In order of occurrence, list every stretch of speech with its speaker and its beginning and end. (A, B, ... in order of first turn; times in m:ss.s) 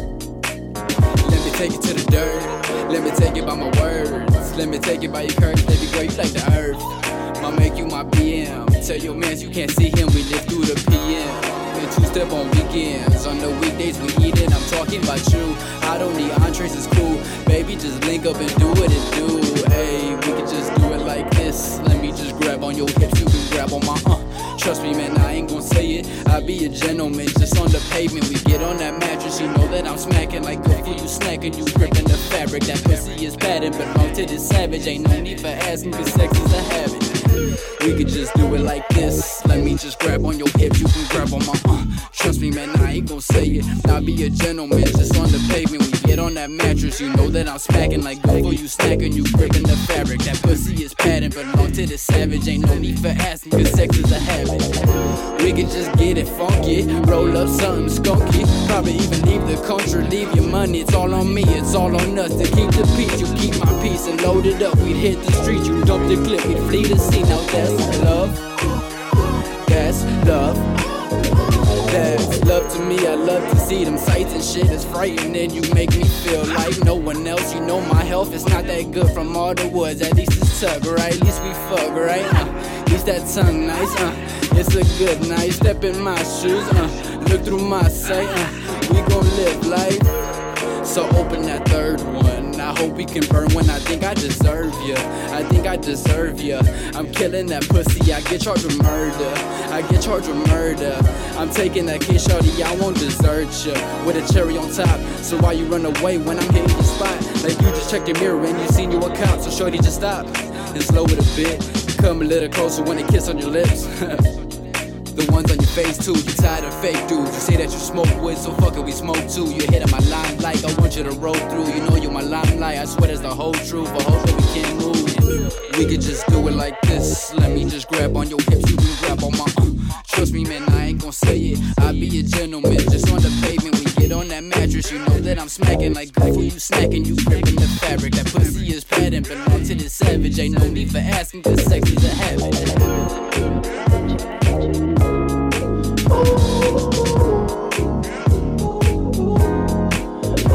0:01.2-0:54.8 A
0:55.3-1:08.5 A
1:09.7-1:10.8 A
1:11.7-1:30.1 A
1:30.8-1:54.3 A
1:55.1-2:23.0 A